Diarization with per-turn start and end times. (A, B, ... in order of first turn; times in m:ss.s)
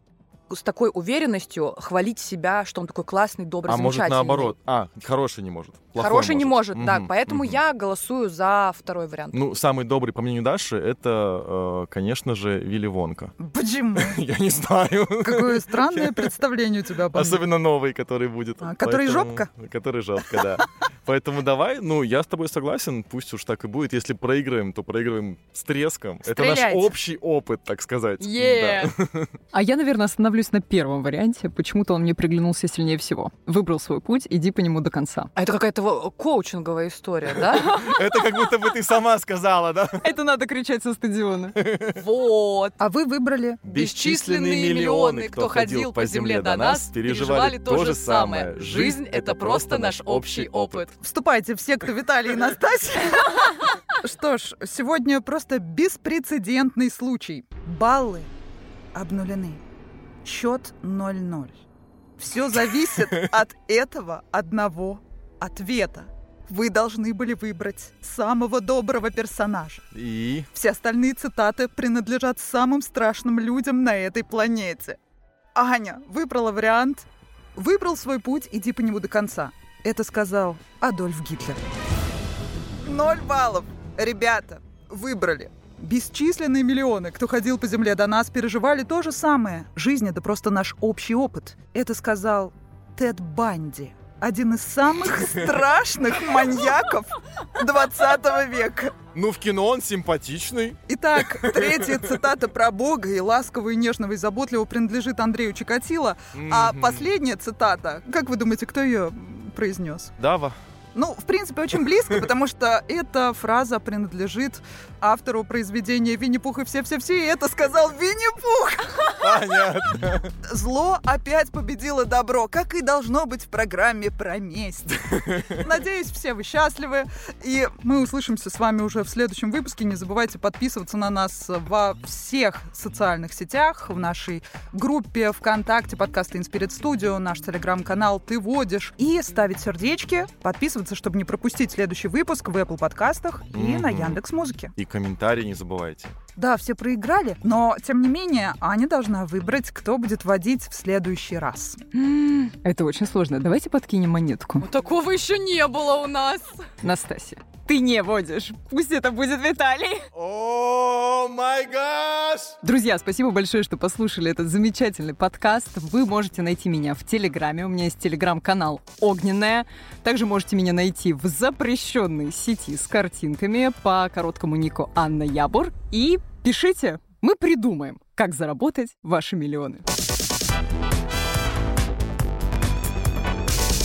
0:00.5-0:04.5 A
0:03.7-0:07.6 B
0:06.0-0:09.4 A
0:09.3-0:13.3 B
0:13.4-0:14.2 C
0:13.9-0:16.3 B
0:15.2-0:17.5 C
0:17.1-0:29.3 B
0:18.6-0:19.5 C
0:26.2-0:26.9 C
0:28.2-0:28.9 A
0:29.5-0:35.3 D
0:35.4-0:37.9 A
0:37.6-0:40.1 B
0:40.0-0:41.6 D
0:41.6-0:42.0 B
0:41.9-0:42.8 A
0:42.8-0:43.6 C
0:43.6-0:50.8 B
0:43.7-0:50.9 A
0:51.0-0:58.3 C
0:58.9-0:59.6 C
1:00.2-1:01.6 C
1:02.2-1:09.8 C
1:09.9-1:10.5 B
1:10.5-1:15.0 C
1:15.5-1:21.6 C
1:22.8-1:39.0 C
1:39.1-1:42.2 B
1:40.9-1:50.1 C
1:46.3-1:47.1 B
1:50.2-1:50.6 B
1:50.9-1:59.6 C
1:59.2-2:00.3 B
2:00.4-2:24.7 C
2:05.2-2:05.5 B
2:23.5-2:24.2 B
2:24.8-2:26.2 B
2:26.4-2:31.8 C
2:31.9-2:34.6 D
2:34.6-2:36.6 A
2:36.8-2:40.1 D
2:40.1-2:42.6 B
2:42.6-2:59.8 D